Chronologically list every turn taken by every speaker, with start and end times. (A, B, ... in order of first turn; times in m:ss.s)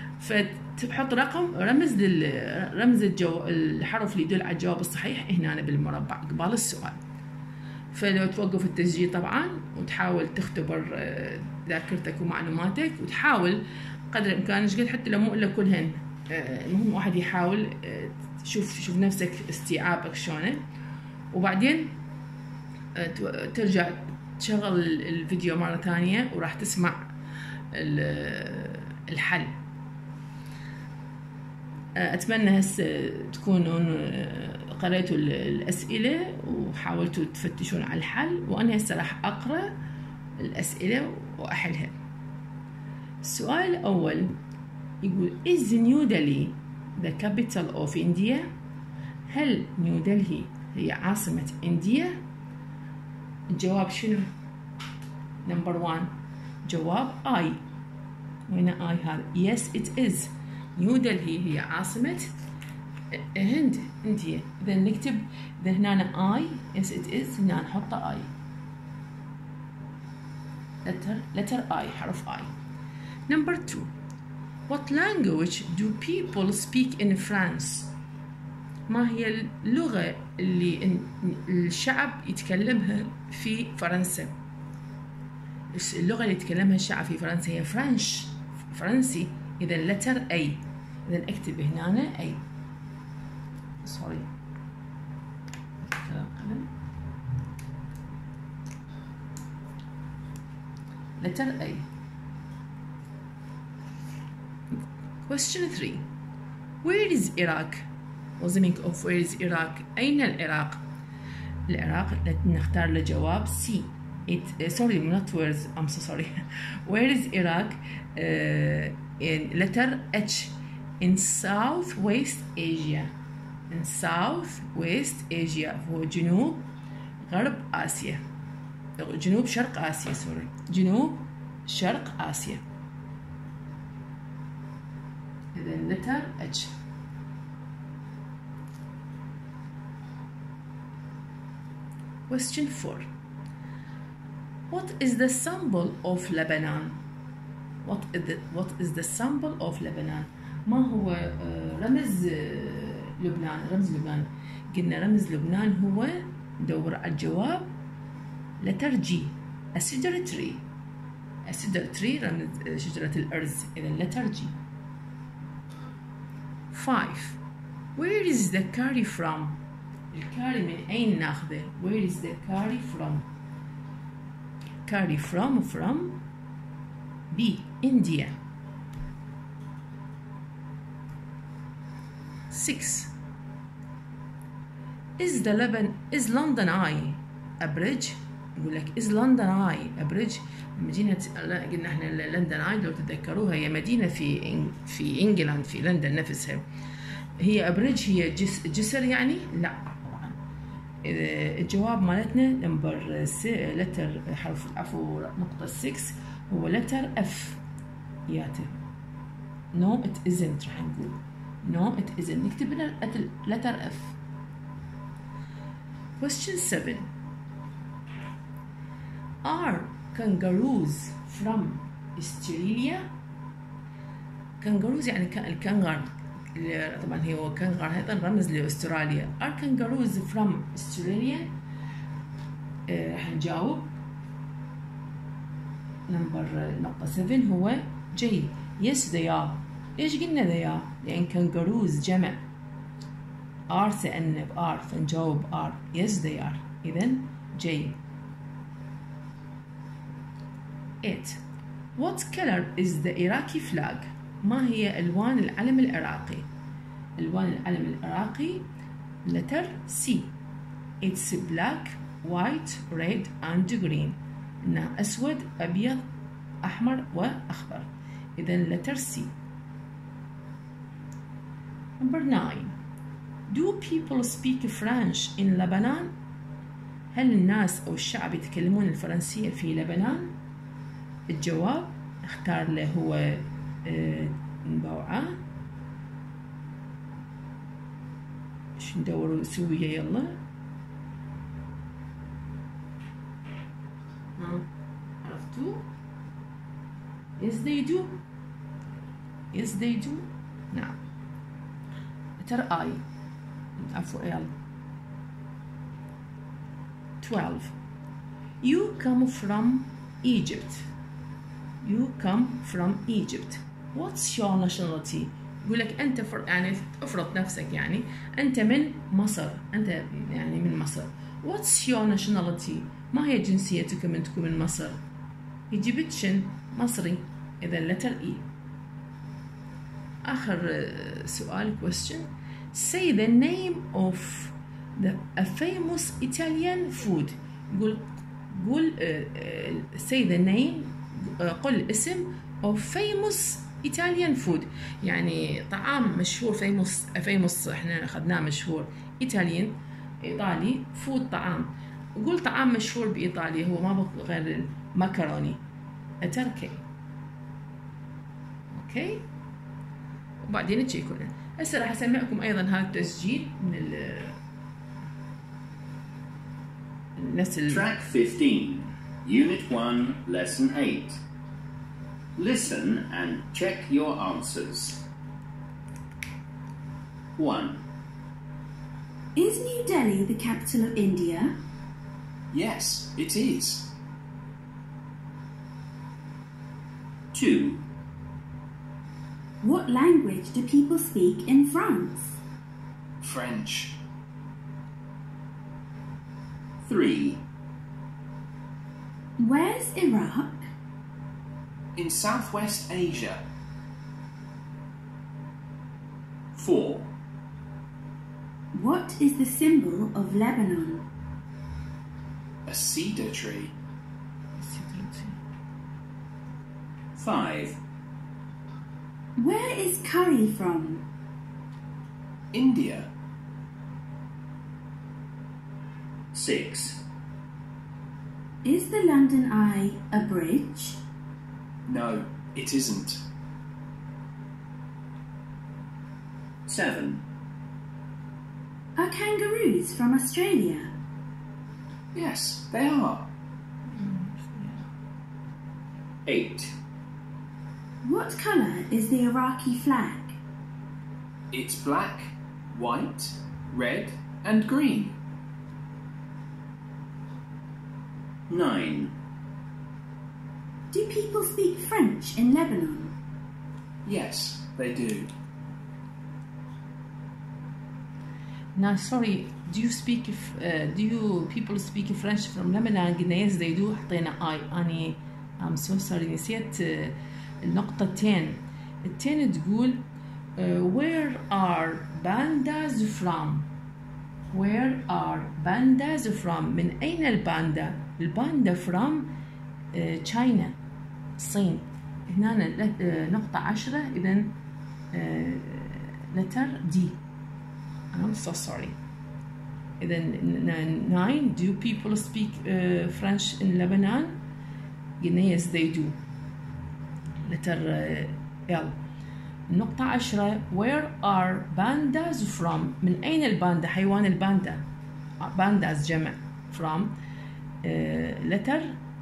0:00.2-0:07.0 A
0:07.9-0:20.6 A
0:21.3-0:21.9 A
0:23.0-0:27.1 A
0:27.7-0:29.6 A
0:32.0-0:39.8 A
0:40.4-0:42.0 A
0:43.2-0:44.4 A
0:45.0-0:48.5 A
0:49.3-0:52.2 A
0:53.5-0:54.3 A
0:55.4-0:56.1 A
0:56.6-0:57.6 A
0:58.5-1:02.3 A
1:03.1-1:08.3 A
1:10.8-1:12.5 A
1:13.3-1:13.9 A
1:14.7-1:17.9 A
1:18.9-1:24.3 A
1:25.7-1:32.4 A
1:33.8-1:34.3 A
1:35.8-1:36.7 A
1:41.2-1:41.9 A
1:44.8-1:46.0 A
1:46.8-1:47.8 A
1:48.4-1:50.8 A
1:51.7-1:56.3 A
1:56.9-2:03.1 A
2:03.7-2:06.7 A
2:07.2-2:08.2 A
2:09.0-2:12.6 A
2:15.5-2:16.7 A
2:22.3-2:23.1 A
2:24.7-2:27.0 A
2:27.8-2:37.7 A
2:38.6-2:40.6 A
2:41.4-2:44.6 A
2:46.7-2:47.4 A
2:48.0-2:49.6 A
2:50.1-2:53.3 A
2:54.9-2:56.2 A
2:57.3-2:58.4 A
3:02.5-3:03.1 A
3:05.2-3:16.6 A
3:17.4-3:20.4 A
3:21.0-3:27.6 A
3:28.3-3:28.7 A
3:29.7-3:34.2 A
3:36.2-3:37.1 A
3:39.4-3:43.1 A
3:44.6-3:51.5 A
3:52.9-3:53.9 A
3:56.1-4:02.4 A
4:03.7-4:08.0 A
4:11.0-4:11.4 A
4:12.0-4:16.5 A
4:17.2-4:18.7 A
4:19.2-4:20.3 A
4:21.0-4:26.0 A
4:26.6-4:29.3 A
4:32.0-4:32.8 A
4:33.5-4:36.1 A
4:37.1-4:40.3 A
4:41.3-4:45.4 A
4:48.8-4:50.4 A
4:54.4-4:54.7 A
4:55.2-4:55.9 A
4:57.4-4:58.2 A
4:59.5-5:01.0 A
5:02.4-5:03.0 A
5:03.8-5:04.5 A
5:07.2-5:07.8 A
5:08.6-5:10.9 A
5:11.8-5:25.0 A
5:25.7-5:28.4 A
5:30.2-5:55.6 A
5:56.2-5:56.8 A
5:58.7-5:59.2 A
6:00.4-6:04.4 A
6:07.2-6:07.9 A
6:07.7-6:11.2 B
6:12.4-6:15.0 B
6:17.4-6:17.8 B
6:19.4-6:21.5 C
6:22.5-6:23.9 D
6:27.3-6:27.8 B
6:29.6-6:32.4 C
6:33.2-6:34.0 D
6:36.8-6:37.4 B
6:39.4-6:40.6 C
6:42.0-6:43.4 D
6:46.6-6:47.1 B
6:48.7-6:51.0 C
6:52.6-6:53.7 D
6:54.6-6:55.4 A
6:57.2-6:57.8 B
6:59.4-7:01.0 C
7:02.5-7:03.1 D
7:06.3-7:07.0 B
7:08.6-7:11.0 C
7:11.9-7:13.2 D
7:16.7-7:17.2 B
7:19.0-7:20.9 C
7:22.1-7:23.3 D
7:23.9-7:24.8 A
7:26.2-7:26.7 B
7:28.0-7:30.4 C
7:31.5-7:35.2 D
7:38.5-7:39.1 B
7:40.9-7:43.1 C
7:44.1-7:45.3 D
7:48.8-8:00.0 A
8:00.6-8:03.7 A
8:04.5-8:09.3 A
8:09.9-8:10.8 A
8:11.4-8:14.5 A
8:15.1-8:17.2 A
8:18.1-8:19.0 A
8:20.0-8:24.4 A
8:25.2-8:26.2 A
8:27.5-8:29.0 A
8:29.7-8:34.8 A
8:35.4-8:37.2 A
8:37.8-8:39.0 A